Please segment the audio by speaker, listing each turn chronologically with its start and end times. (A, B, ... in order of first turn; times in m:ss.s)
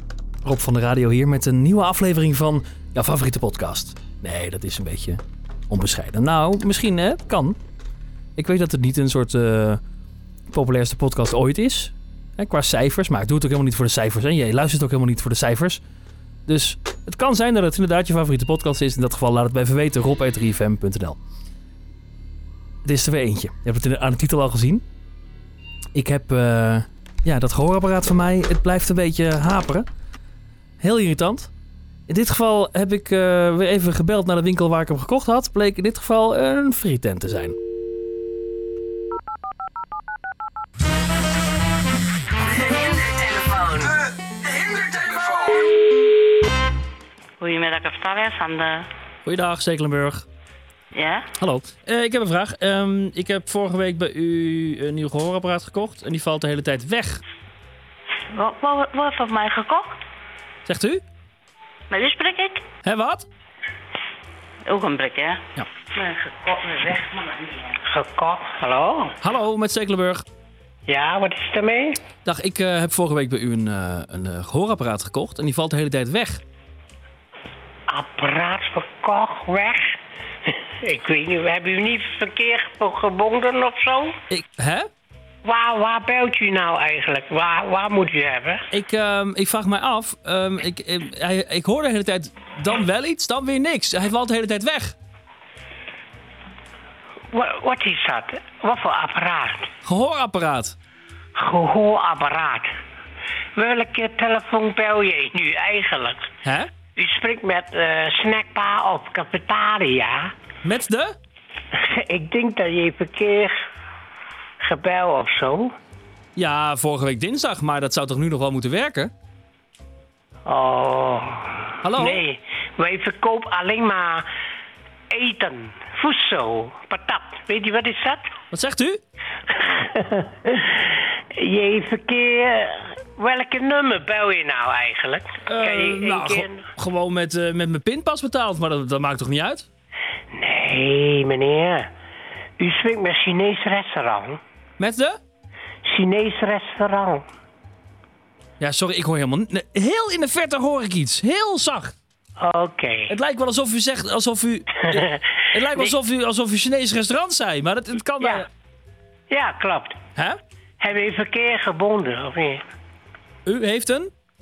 0:00.4-0:07.6 A
0:08.4-0:09.8 A
0:10.5-0:15.8 A
0:16.5-0:21.2 A
0:22.8-0:24.8 A
0:25.9-0:29.9 A
0:30.8-0:31.5 A
0:32.1-0:37.6 A
0:42.5-0:44.0 B
0:47.4-0:48.9 B
0:49.2-0:50.3 A
0:50.9-0:51.3 B
0:51.4-0:57.2 A
0:58.3-1:00.0 B
1:00.6-1:01.0 A
1:01.9-1:02.6 B
1:02.8-1:03.3 A
1:04.6-1:05.4 B
1:05.9-1:07.7 B
1:07.8-1:09.2 C
1:09.2-1:10.2 A
1:10.9-1:12.0 C
1:12.2-1:16.4 A
1:17.9-1:24.2 C
1:24.3-1:24.9 A
1:25.4-1:28.6 C
1:28.7-1:35.0 A
1:37.3-1:39.7 C
1:39.8-1:40.8 A
1:41.4-1:42.7 C
1:43.6-1:46.2 C
1:46.4-1:46.7 A
1:47.0-1:50.3 C
1:50.6-1:51.2 A
1:51.7-1:53.5 C
1:54.6-1:55.7 C
1:56.4-1:59.1 A
2:00.5-2:04.2 C
2:01.8-2:02.2 A
2:05.1-2:08.3 C
2:08.5-2:09.0 A
2:09.5-2:16.6 C
2:15.4-2:19.7 A
2:20.3-2:21.9 C
2:22.6-2:24.4 C
2:24.8-2:25.2 A
2:25.9-2:27.2 C
2:28.6-2:31.9 A
2:32.4-2:33.1 C
2:33.1-2:38.5 A
2:39.3-2:40.0 C
2:40.8-2:42.6 C
2:43.4-2:44.1 A